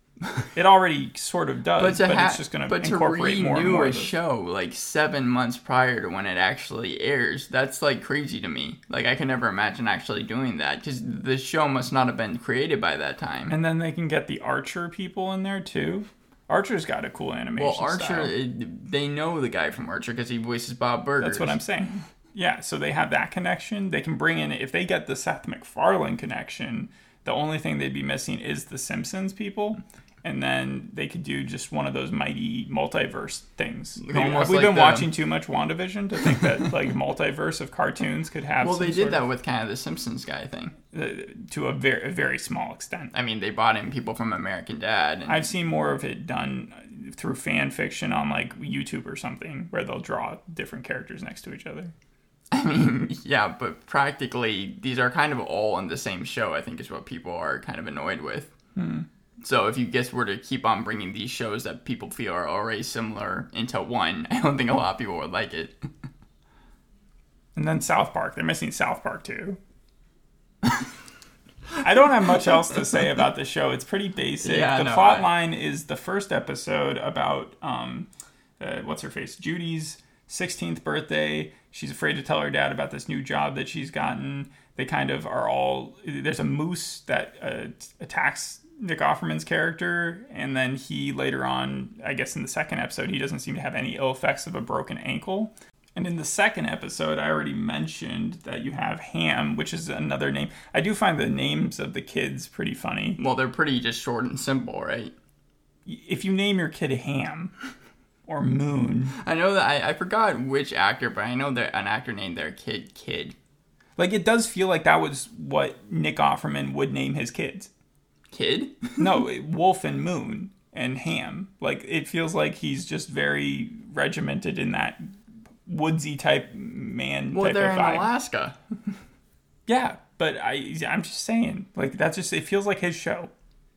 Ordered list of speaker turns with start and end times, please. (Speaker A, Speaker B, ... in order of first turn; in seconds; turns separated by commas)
Speaker A: 0.6-4.1, Speaker B: 1.8-13.6, Speaker A: 13.5-18.3, Speaker B: 17.6-21.6, Speaker A: 21.2-39.3, Speaker B: 34.0-35.1, Speaker B: 38.6-40.8, Speaker A: 40.9-43.1, Speaker B: 43.1-45.4, Speaker A: 45.3-51.9, Speaker B: 52.5-58.5, Speaker A: 58.8-59.1, Speaker B: 59.4-65.8, Speaker A: 67.5-69.6, Speaker A: 71.8-78.1, Speaker B: 74.4-75.3, Speaker A: 78.6-103.2, Speaker B: 103.2-105.1, Speaker A: 105.9-107.5, Speaker A: 108.3-109.1, Speaker B: 109.2-113.3, Speaker A: 114.0-117.7, Speaker B: 118.3-119.2, Speaker A: 119.0-125.1, Speaker A: 125.6-128.1, Speaker B: 127.3-128.6, Speaker A: 129.7-133.3